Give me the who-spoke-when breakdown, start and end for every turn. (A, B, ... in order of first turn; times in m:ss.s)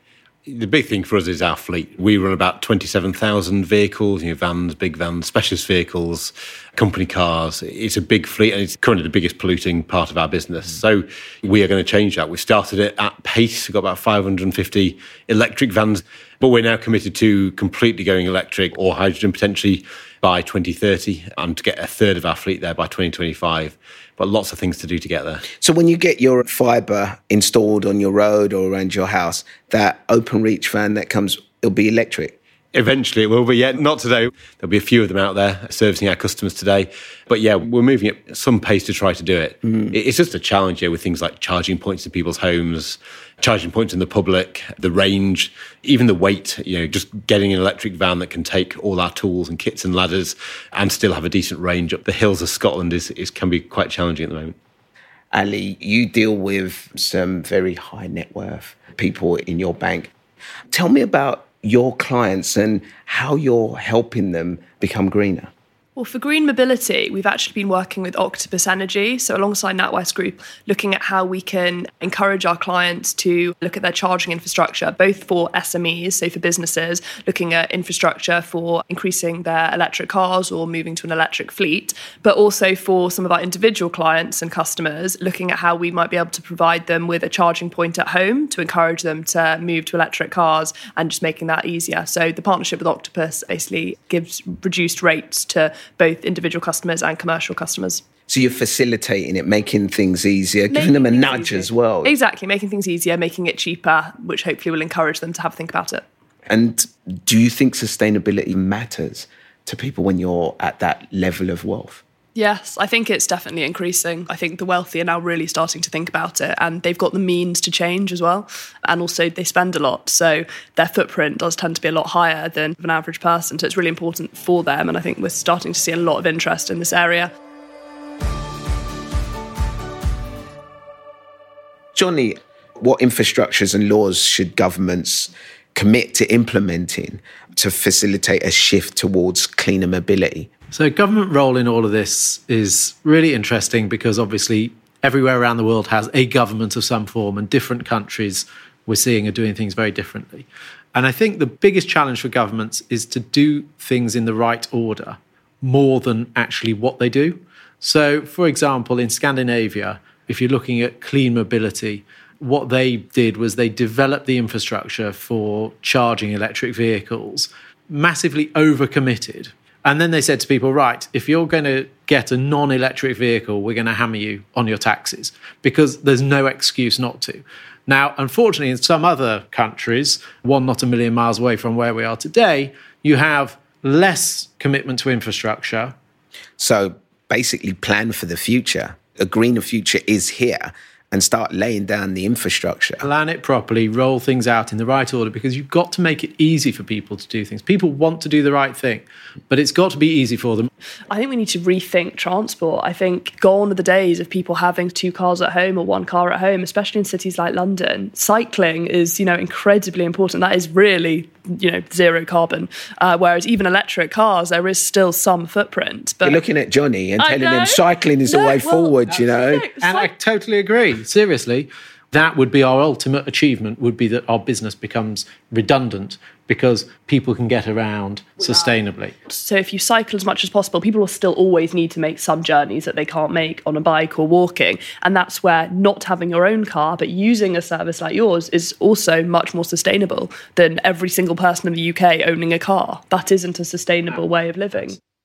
0:00.5-0:25.5 A
0:25.6-0:32.4 B
0:32.7-0:54.6 A
0:55.3-1:00.1 B
1:00.7-1:05.5 B
1:06.0-1:38.0 C
1:38.3-1:42.1 B
1:40.7-1:46.0 C
1:46.5-1:52.0 B
1:52.4-2:07.3 C
2:12.0-2:20.5 B
2:20.7-3:06.0 D
3:06.6-3:13.0 B
3:13.0-3:20.7 D
3:21.1-3:36.4 C
3:36.2-3:39.7 B
3:37.2-3:39.0 C
3:39.5-3:40.1 C
3:39.8-3:49.2 D
3:49.3-4:05.0 C